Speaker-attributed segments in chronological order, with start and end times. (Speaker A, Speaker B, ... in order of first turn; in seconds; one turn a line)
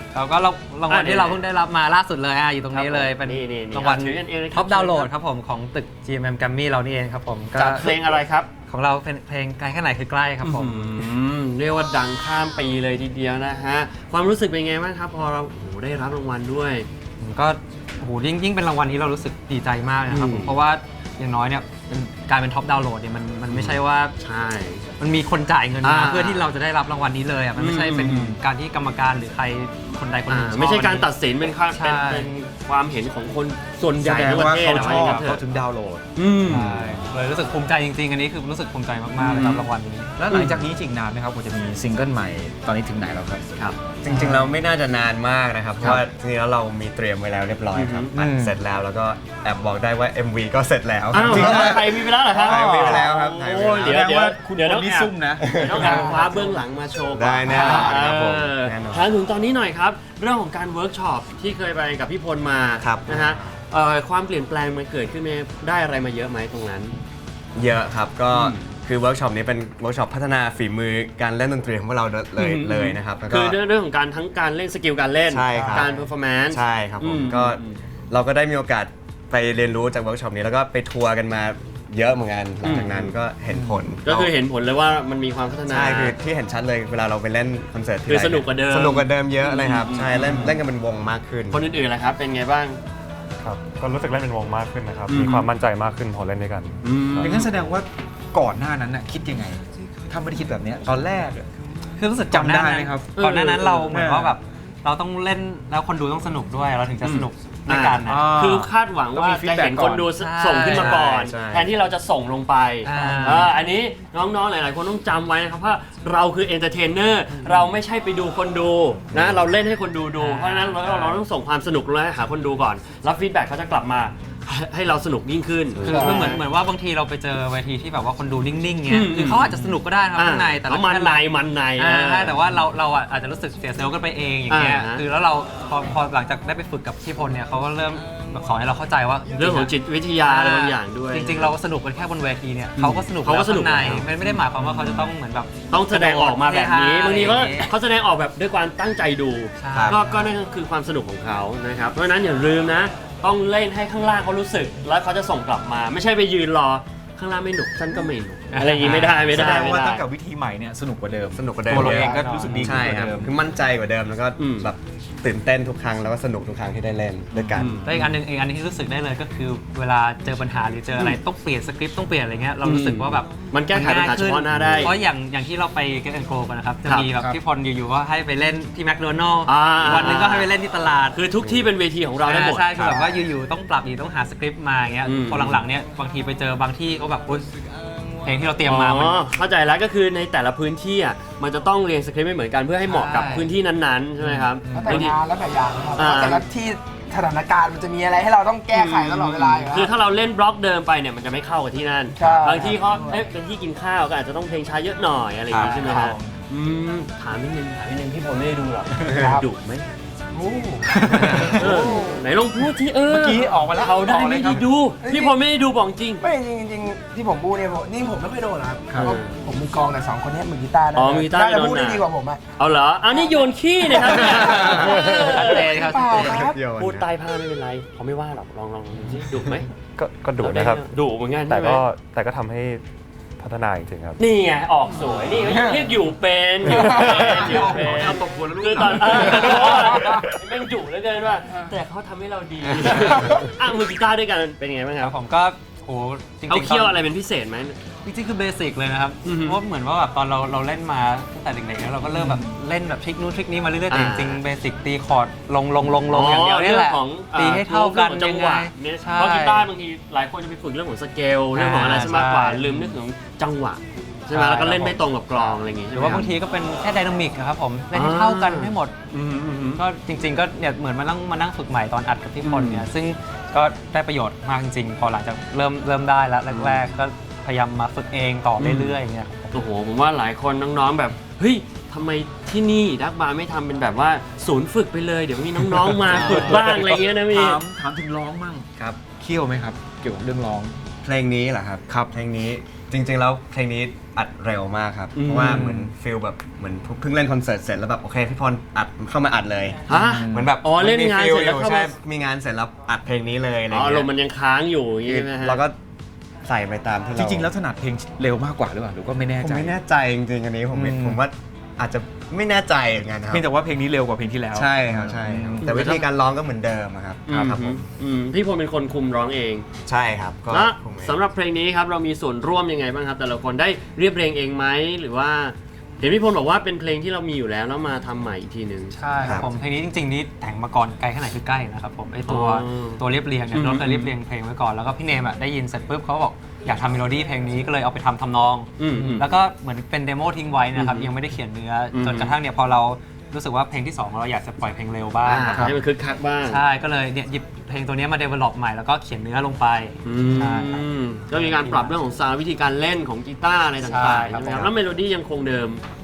Speaker A: 0.1-8.0
Speaker B: 0.9-1.4
Speaker B: 2.7-5.1
Speaker B: 7.5-8.5
Speaker A: 8.7-10.9
Speaker B: 10.4-16.9
Speaker A: 17.2-24.1
Speaker B: 20.1-20.6
Speaker B: 23.5-24.8
Speaker A: 25.0-31.1
Speaker B: 25.8-26.4
Speaker B: 27.6-28.4
Speaker B: 30.3-35.4
Speaker A: 31.7-32.3
Speaker C: 34.0-37.1
Speaker B: 36.1-36.7
Speaker D: 36.6-37.0
Speaker A: 37.1-40.1
Speaker C: 39.2-39.6
Speaker C: 40.2-43.4
Speaker B: 40.3-40.6
Speaker D: 44.0-51.8
Speaker C: 44.1-44.5
Speaker B: 47.7-48.1
Speaker C: 48.1-48.5
Speaker B: 51.1-66.9
Speaker C: 51.2-53.0
Speaker D: 52.3-54.0
Speaker C: 53.8-56.2
Speaker D: 55.4-56.0
Speaker D: 57.1-59.0
Speaker A: 57.5-57.9
Speaker C: 57.5-58.0
Speaker D: 62.8-63.4
Speaker D: 67.5-73.6
Speaker B: 68.3-68.7
Speaker B: 72.4-77.8
Speaker D: 75.3-84.3
Speaker B: 82.6-83.1
Speaker C: 83.5-83.8
Speaker B: 84.0-86.2
Speaker D: 85.7-91.7
Speaker B: 88.1-90.6
Speaker B: 91.5-92.8
Speaker E: 93.4-97.3
Speaker B: 95.1-95.5
Speaker B: 96.8-97.4
Speaker C: 97.2-101.5
Speaker A: 102.0-108.2
Speaker C: 102.3-103.1
Speaker B: 103.2-103.9
Speaker C: 103.9-104.3
Speaker B: 107.0-126.4
Speaker C: 108.0-110.0
Speaker A: 110.2-111.0
Speaker D: 110.7-111.7
Speaker A: 112.8-113.5
Speaker C: 112.9-113.5
Speaker D: 119.1-119.5
Speaker A: 120.2-121.2
Speaker A: 125.8-139.7
Speaker F: 125.9-126.2
Speaker B: 128.9-132.4
Speaker B: 134.5-135.0
Speaker B: 139.3-141.6
Speaker A: 140.2-147.7
Speaker B: 142.8-144.1
Speaker B: 145.7-160.0
Speaker A: 149.6-150.3
Speaker A: 158.5-159.7
Speaker C: 158.8-163.3
Speaker D: 161.3-167.8
Speaker A: 161.7-162.7
Speaker B: 164.4-164.7
Speaker B: 167.5-168.1
Speaker A: 167.8-181.2
Speaker B: 172.6-174.9
Speaker D: 174.5-174.9
Speaker B: 179.4-180.5
Speaker B: 181.1-183.0
Speaker D: 181.4-181.7
Speaker A: 182.2-187.5
Speaker D: 182.8-183.2
Speaker B: 185.0-185.6
Speaker A: 188.2-189.2
Speaker B: 188.7-195.2
Speaker A: 192.8-193.5
Speaker F: 194.7-199.9
Speaker B: 195.9-196.4
Speaker B: 198.7-209.9
Speaker F: 202.2-203.2
Speaker C: 205.5-206.3
Speaker F: 210.3-210.9
Speaker C: 210.9-211.9
Speaker B: 211.1-216.2
Speaker F: 211.8-212.2
Speaker C: 213.0-214.7
Speaker F: 215.0-215.3
Speaker F: 216.2-222.4
Speaker C: 218.9-219.2
Speaker B: 218.9-219.4
Speaker B: 220.9-222.1
Speaker B: 222.6-229.7
Speaker A: 224.5-226.4
Speaker F: 225.8-226.6
Speaker D: 226.1-227.1
Speaker E: 230.0-230.9
Speaker B: 230.4-231.8
Speaker E: 231.4-232.8
Speaker E: 233.4-234.2
Speaker B: 234.2-245.1
Speaker C: 236.7-240.2
Speaker A: 245.0-247.0
Speaker B: 246.5-247.8
Speaker A: 248.0-259.7
Speaker B: 249.2-249.6
Speaker C: 252.1-252.5
Speaker B: 253.9-254.4
Speaker B: 256.1-266.3
Speaker A: 261.6-262.9
Speaker A: 264.3-268.9
Speaker B: 267.9-269.8
Speaker A: 269.8-279.6
Speaker B: 272.4-272.9
Speaker B: 276.5-276.9
Speaker B: 278.6-279.0
Speaker B: 279.5-287.6
Speaker C: 286.1-290.7
Speaker A: 286.3-286.6
Speaker D: 291.0-304.1
Speaker B: 295.1-295.7
Speaker C: 295.4-295.9
Speaker B: 299.9-301.9
Speaker C: 299.9-300.5
Speaker B: 303.7-305.6
Speaker D: 305.1-305.8
Speaker D: 306.4-307.5
Speaker C: 307.1-309.7
Speaker D: 309.4-313.5
Speaker C: 310.7-311.2
Speaker C: 313.3-315.9
Speaker D: 314.5-317.8
Speaker B: 315.6-316.0
Speaker B: 317.3-319.7
Speaker D: 319.9-321.2
Speaker B: 320.5-328.9
Speaker A: 328.9-345.7
Speaker D: 329.2-329.5
Speaker B: 332.3-333.0
Speaker B: 333.5-334.1
Speaker B: 338.8-339.3
Speaker B: 340.8-341.1
Speaker B: 341.9-342.3
Speaker B: 345.2-346.6
Speaker A: 346.4-351.9
Speaker B: 350.0-355.8
Speaker A: 353.8-354.6